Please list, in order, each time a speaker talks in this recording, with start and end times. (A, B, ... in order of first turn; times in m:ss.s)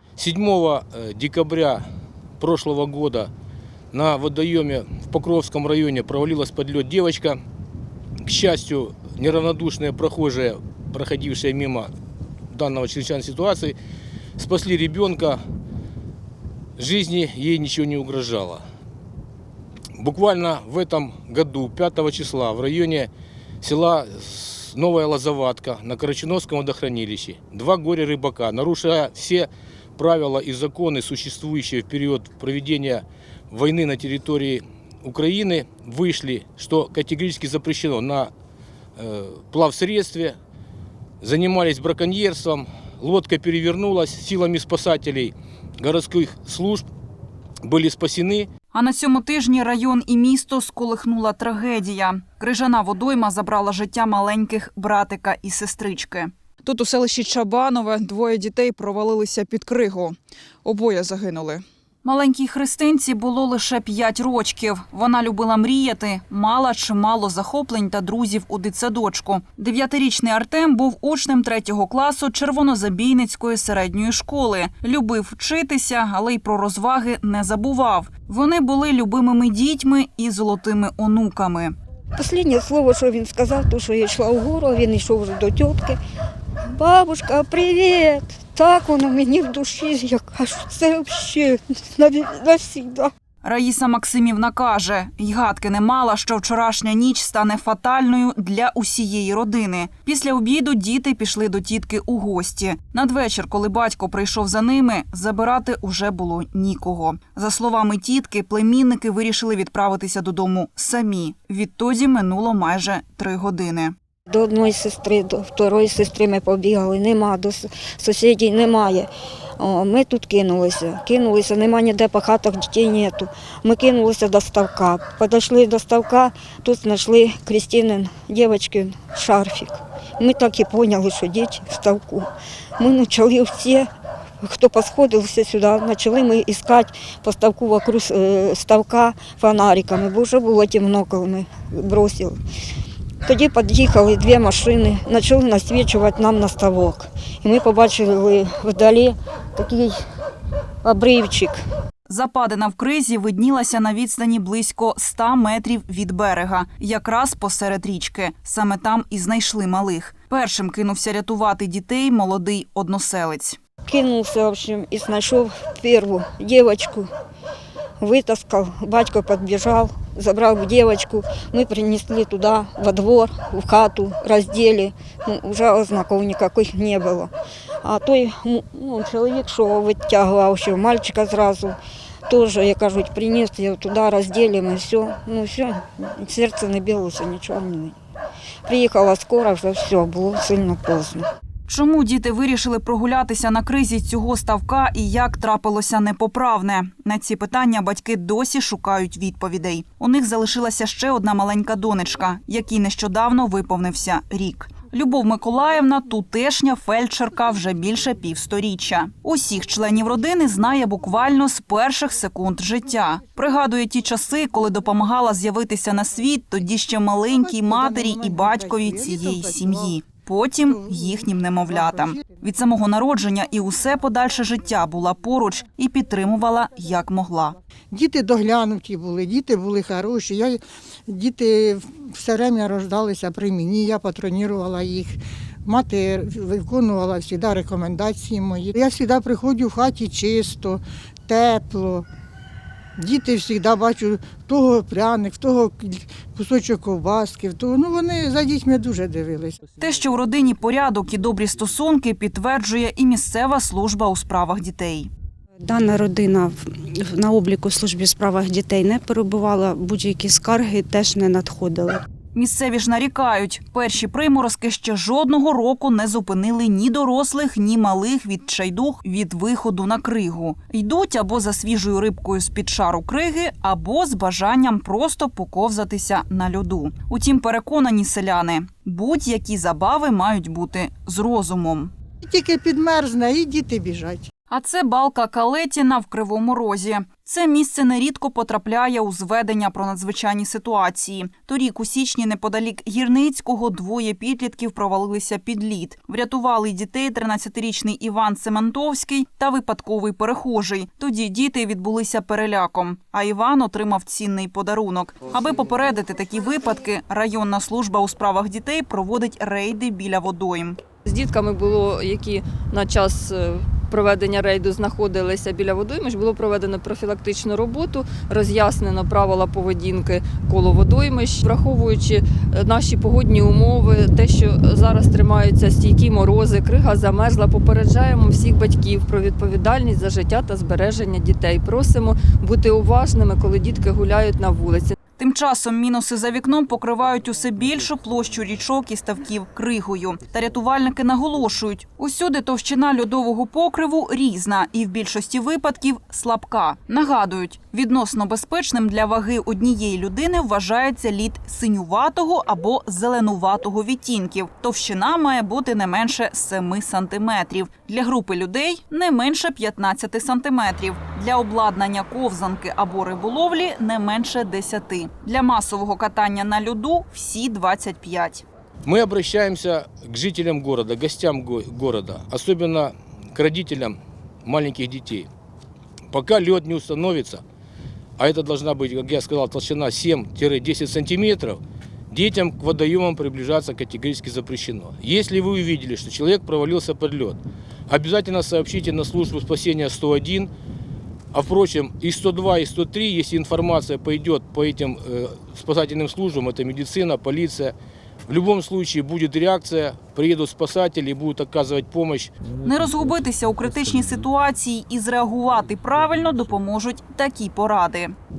0:00.2-0:01.8 A
0:02.4-0:03.3 A
0:03.9-0:07.4 A
0:08.2-0:11.9 A
0:12.5-0:13.8 A
0:14.4-0:15.4 A
0:16.8-0:18.6 A
0:20.0-0:23.1 A
0:23.6-0:38.3 A
0:39.0-0:40.4 A
0:41.2-0:46.9 A
0:47.6-0:48.5 A
0:48.7-1:21.7 B
1:22.2-1:26.0 C
1:26.7-1:33.1 C
1:33.4-1:53.9 B
1:54.3-2:13.9 C
2:14.4-2:22.4 C
2:23.2-2:30.0 C
2:30.8-2:31.6 C
2:32.1-2:43.6 B
2:43.9-2:47.1 C
2:48.0-2:57.3 C
2:57.8-3:01.8 C
3:02.3-3:08.0 C
3:08.7-3:11.3 C
3:11.7-3:47.6 B
3:37.4-3:40.0 D
3:41.7-3:42.3 D
3:47.9-4:02.1 D
4:03.0-4:09.6 D
4:09.8-4:15.1 B
4:15.6-4:22.0 E
4:22.3-4:41.9 B
4:42.2-4:44.3 D
4:44.5-5:10.8 B
5:11.0-5:35.0 F
5:35.2-6:08.4 B
6:08.8-6:15.3 A
6:16.1-6:17.4 A
6:18.2-6:30.5 A
6:31.3-6:37.8 A
6:38.3-6:42.3 A
6:42.6-6:48.1 B